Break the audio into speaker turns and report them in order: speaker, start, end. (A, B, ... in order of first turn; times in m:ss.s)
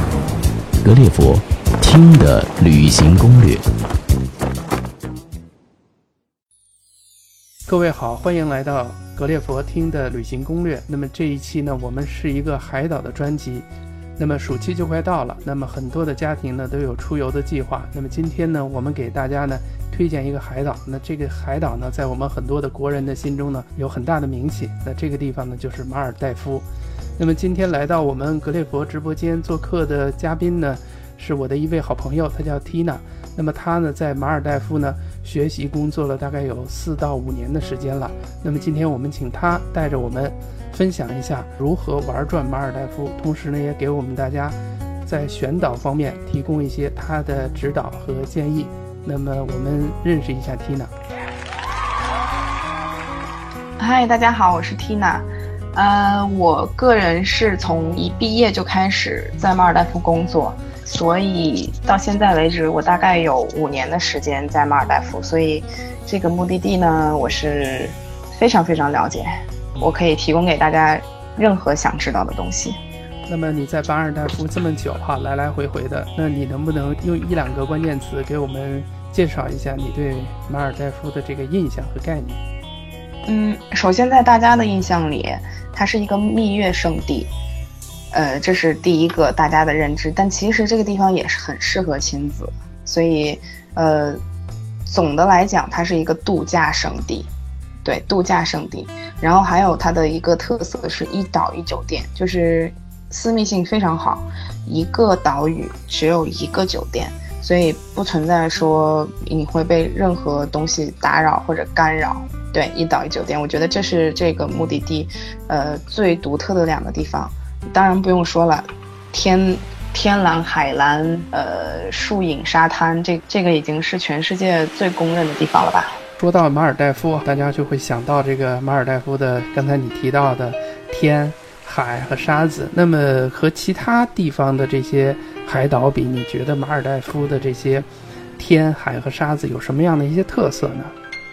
0:00.8-0:03.6 A
0:07.7-0:26.6 B
0:27.2-0:50.9 B
0:53.8-1:12.8 C
1:13.3-1:22.4 B
1:23.3-1:27.3 C
1:28.1-1:34.2 C
1:34.8-1:37.3 C
1:37.8-2:06.0 C
2:06.2-2:20.9 B